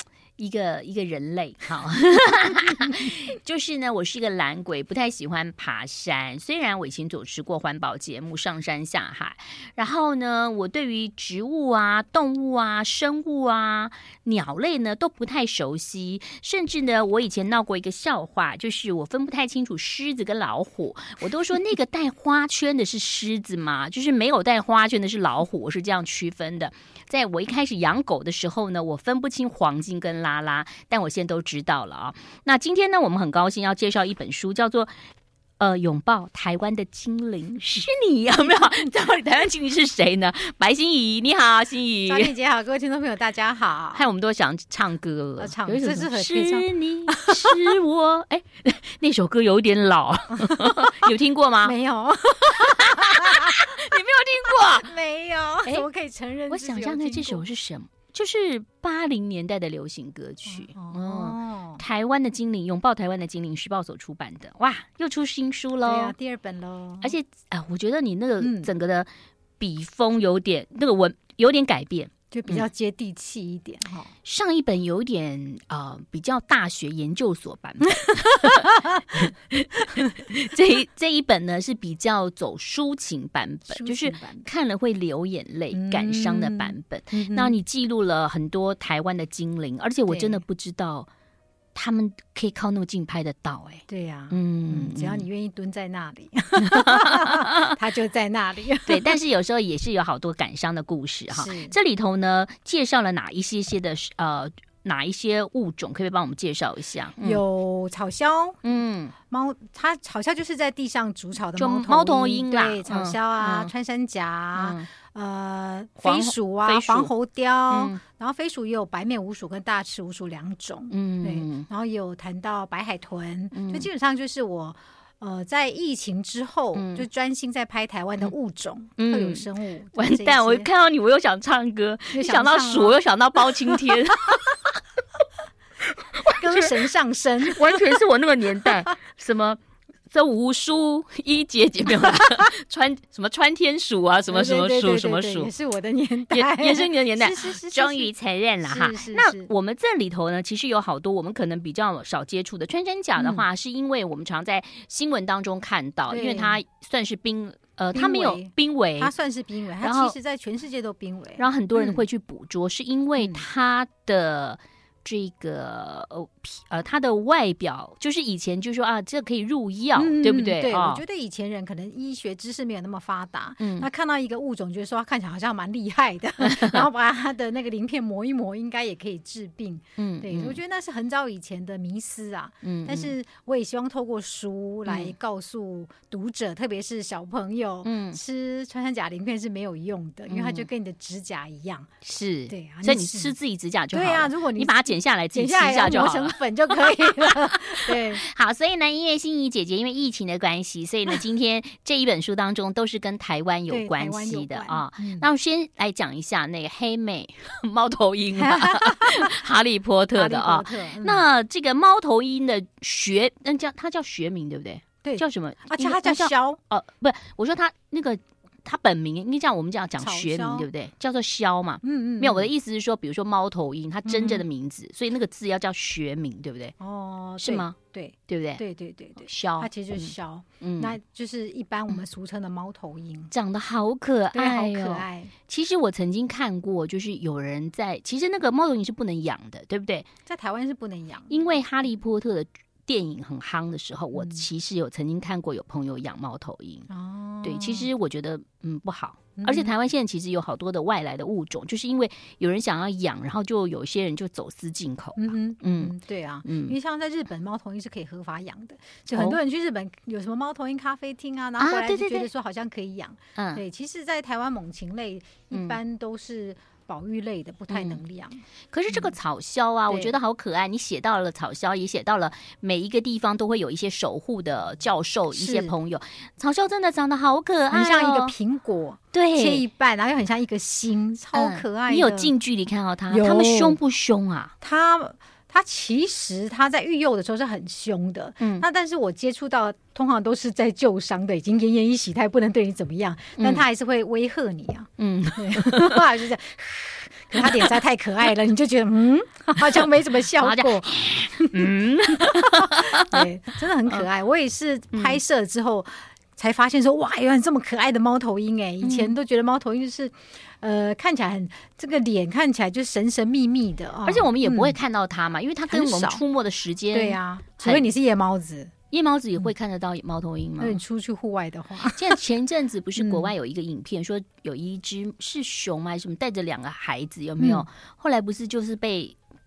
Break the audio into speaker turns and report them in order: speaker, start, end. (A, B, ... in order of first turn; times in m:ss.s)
0:00.4-0:34.9 A
0:35.6-0:42.3 A
0:42.1-0:44.0 B
0:43.9-0:51.8 A
0:45.4-0:47.7 B
0:50.4-0:51.1 B
0:51.6-0:53.8 B
0:52.6-0:54.9 A
0:54.4-0:57.5 B
0:56.5-1:06.1 A
1:00.5-1:01.8 B
1:05.9-1:07.1 B
1:07.0-1:09.1 A
1:08.4-1:08.7 B
1:09.6-1:12.6 A
1:12.3-1:14.1 B
1:14.2-1:31.1 A
1:18.4-1:18.8 B
1:23.7-1:24.4 B
1:25.7-1:27.6 B
1:30.1-1:30.4 B
1:31.7-1:35.3 A
1:33.9-1:39.2 B
1:36.6-1:37.7 A
1:38.9-1:47.4 A
1:41.3-1:41.7 B
1:47.2-1:48.6 B
1:48.6-1:49.1 A
1:49.2-2:10.7 B
1:51.6-1:53.7 A
1:54.5-1:54.9 A
1:56.0-1:57.1 A
1:57.7-1:58.0 A
2:00.9-2:01.7 A
2:03.5-2:03.9 A
2:06.8-2:07.1 A
2:09.0-2:14.8 A
2:12.1-2:14.0 B
2:16.0-2:16.8 A
2:16.3-2:17.8 B
2:17.4-2:19.6 A
2:20.1-2:25.5 A
2:24.3-2:28.1 B
2:26.3-2:39.1 A
2:28.6-2:29.5 B
2:33.2-2:33.5 B
2:36.1-2:36.6 B
2:37.9-2:42.0 B
2:39.8-2:40.2 A
2:41.4-2:51.0 A
2:43.2-2:43.4 B
2:50.0-3:11.9 B
2:53.6-2:53.9 A
2:56.4-2:56.8 A
3:00.0-3:00.6 A
3:02.6-3:03.1 A
3:04.9-3:05.1 A
3:07.8-3:08.2 A
3:10.3-3:10.7 A
3:12.0-3:46.7 A
3:12.5-3:13.4 B
3:13.9-3:18.2 B
3:23.7-3:25.3 B
3:28.4-3:29.3 B
3:30.1-3:31.2 B
3:35.0-3:36.6 B
3:40.0-3:40.7 B
3:41.8-3:42.5 B
3:44.0-3:44.4 B
3:46.8-3:53.3 B
3:47.4-3:47.8 A
3:48.3-3:48.6 A
3:49.2-3:51.0 A
3:53.3-4:00.1 A
3:54.3-3:55.3 B
4:00.3-4:01.5 B
4:01.3-4:06.9 A
4:04.2-4:04.4 B
4:06.9-4:07.9 B
4:07.4-4:16.8 A
4:09.4-4:09.7 B
4:15.2-4:29.1 B
4:21.6-4:22.3 A
4:23.4-4:23.6 A
4:25.5-4:25.8 A
4:27.7-4:28.0 A
4:28.7-4:38.3 A
4:29.9-4:30.1 B
4:35.3-4:35.7 B
4:37.7-4:42.3 B
4:39.1-4:39.6 A
4:41.4-4:44.5 A
4:43.1-4:43.8 B
4:44.6-5:14.8 B
4:48.4-4:48.6 A
4:53.4-4:53.6 A
4:55.0-4:56.0 A
4:57.4-4:57.7 A
5:00.4-5:03.3 A
5:04.9-5:05.2 A
5:08.8-5:09.2 A
5:14.0-5:17.9 A
5:15.7-5:16.2 B
5:16.9-5:18.7 B
5:18.9-5:20.8 A
5:20.6-5:22.2 B
5:21.8-5:29.2 A
5:23.0-5:23.3 B
5:27.4-5:27.6 B